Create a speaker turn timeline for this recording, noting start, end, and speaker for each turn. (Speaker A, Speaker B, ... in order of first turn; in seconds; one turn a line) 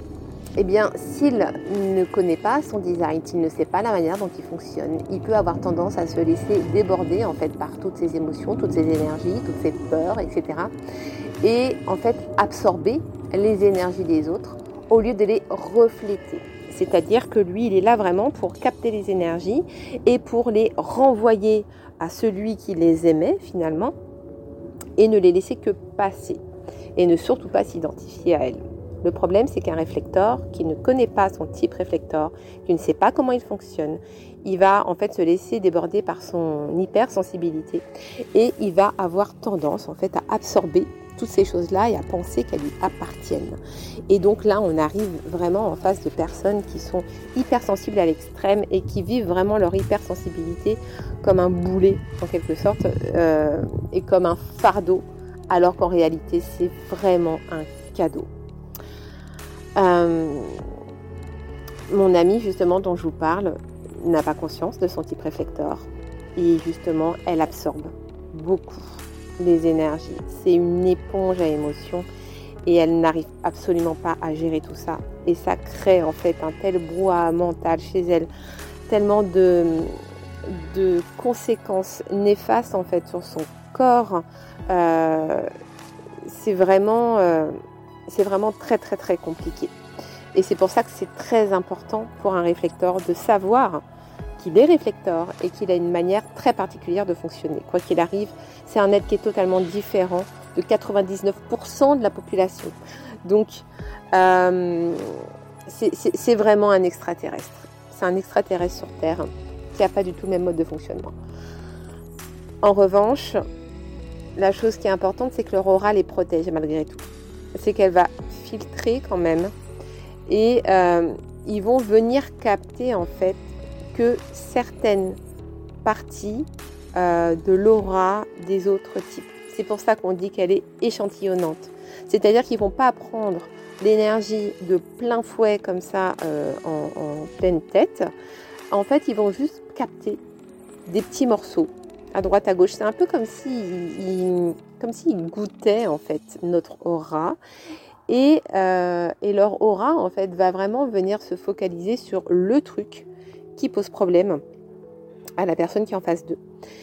Speaker A: 0.6-10.7
Speaker A: 11.4-23.9
Speaker A: 25.0-26.4
Speaker A: 27.0-58.3
Speaker A: 59.8-60.6
Speaker A: 61.9-72.1
Speaker A: 72.7-78.3
Speaker A: 78.9-85.5
Speaker A: 86.2-89.7
Speaker A: 90.3-93.8
Speaker A: 94.4-111.2
Speaker A: 112.6-113.4
Speaker A: 114.4-119.5
Speaker A: 120.3-125.2
Speaker A: 125.8-138.1
Speaker A: 138.7-140.2
Speaker A: 140.9-147.4
Speaker A: 148.1-154.4
Speaker A: 155.4-156.4